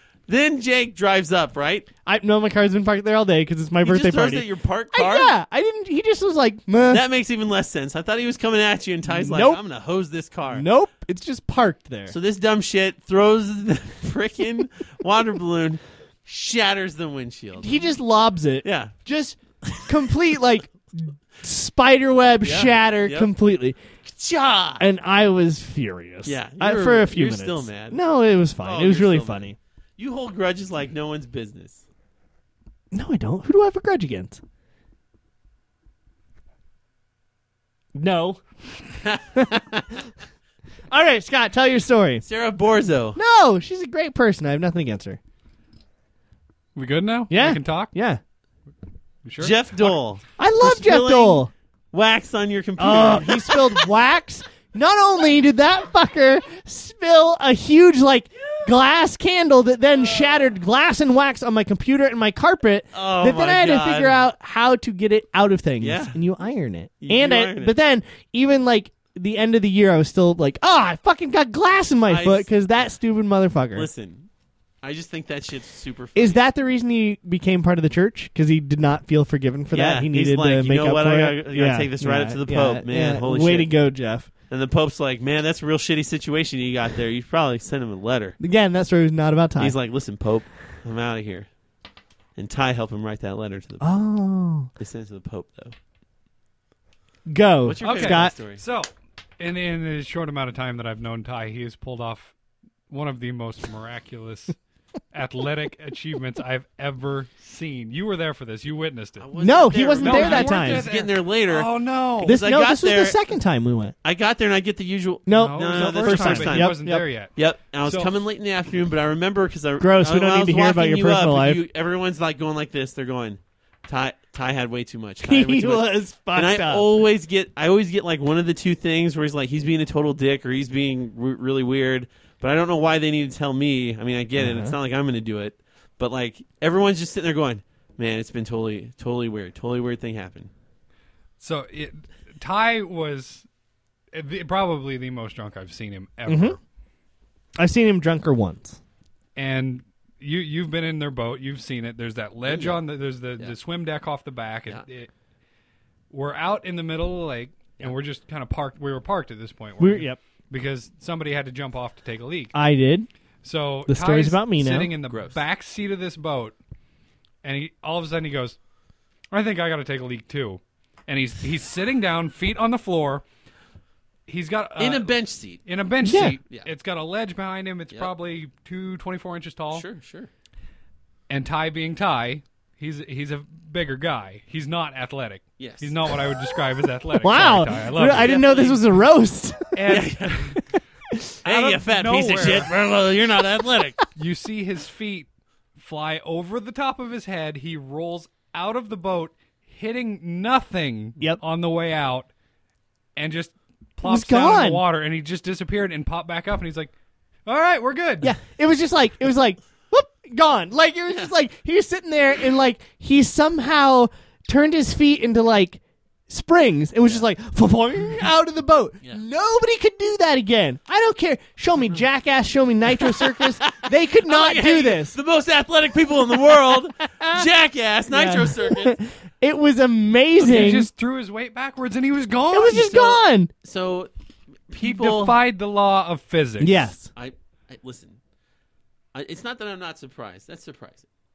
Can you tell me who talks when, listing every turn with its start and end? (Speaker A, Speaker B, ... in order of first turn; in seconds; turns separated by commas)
Speaker A: 0.3-1.9, Speaker B: 2.0-7.0, Speaker A: 3.8-5.3, Speaker A: 6.9-10.7, Speaker B: 9.1-9.6, Speaker B: 10.5-12.1, Speaker A: 12.1-17.8, Speaker B: 17.6-23.8, Speaker A: 18.6-18.9, Speaker A: 19.6-19.9, Speaker A: 22.4-23.3, Speaker A: 24.1-24.8, Speaker B: 24.8-29.6, Speaker A: 26.2-28.0, Speaker A: 28.6-31.8, Speaker B: 32.9-34.4, Speaker B: 37.9-38.4, Speaker A: 39.0-40.0, Speaker B: 39.3-39.6, Speaker B: 40.9-42.2, Speaker A: 42.2-43.2, Speaker B: 43.1-45.2, Speaker C: 46.7-47.9, Speaker B: 47.3-48.2, Speaker C: 49.2-50.0, Speaker A: 49.4-53.8, Speaker B: 50.4-51.5, Speaker B: 52.8-73.9, Speaker A: 62.9-64.2, Speaker A: 65.8-66.2, Speaker A: 67.0-67.7, Speaker A: 72.1-72.5, Speaker A: 73.7-74.3, Speaker A: 74.8-76.4, Speaker B: 76.1-84.3, Speaker A: 79.7-83.7, Speaker A: 84.5-88.4, Speaker B: 88.4-89.8, Speaker A: 89.6-91.5, Speaker A: 92.3-93.9, Speaker B: 93.8-94.7, Speaker A: 94.8-95.7, Speaker B: 97.3-98.3, Speaker A: 97.6-98.6, Speaker C: 97.8-102.3, Speaker C: 102.9-104.5, Speaker C: 105.1-109.3, Speaker A: 109.2-113.3, Speaker B: 109.4-110.8, Speaker C: 110.0-112.4, Speaker B: 112.2-113.9, Speaker A: 114.0-116.8, Speaker B: 115.2-117.0, Speaker C: 115.3-118.1, Speaker A: 117.3-140.5, Speaker B: 119.8-121.6, Speaker B: 125.2-126.9, Speaker B: 134.3-134.8, Speaker C: 141.4-143.4, Speaker C: 144.1-146.6, Speaker B: 146.3-146.6, Speaker B: 147.6-148.8, Speaker C: 149.3-155.1, Speaker A: 152.4-152.8, Speaker C: 156.1-162.5, Speaker B: 159.8-160.2, Speaker B: 162.5-163.1, Speaker C: 163.4-166.6, Speaker B: 163.9-164.9, Speaker A: 165.1-165.4, Speaker C: 167.4-168.6, Speaker C: 169.3-173.2, Speaker C: 174.3-175.1, Speaker A: 174.8-175.7, Speaker C: 175.6-179.8, Speaker B: 176.0-176.4, Speaker A: 179.7-180.3, Speaker C: 181.3-188.8, Speaker A: 185.6-186.1, Speaker B: 187.2-189.7, Speaker A: 188.1-188.8, Speaker C: 189.7-190.6, Speaker A: 189.9-190.5, Speaker C: 191.4-192.7, Speaker A: 191.4-194.0, Speaker C: 194.2-202.3, Speaker C: 203.2-206.9, Speaker B: 204.0-204.8, Speaker C: 207.4-208.3, Speaker B: 208.2-225.2, Speaker A: 223.0-229.0, Speaker B: 227.2-227.5, Speaker B: 228.1-230.9, Speaker A: 230.4-230.8, Speaker C: 230.4-233.2, Speaker B: 232.5-233.5, Speaker A: 233.6-234.1, Speaker A: 234.7-235.4, Speaker C: 234.8-236.9, Speaker B: 236.6-237.1, Speaker A: 237.1-238.2, Speaker A: 239.1-241.1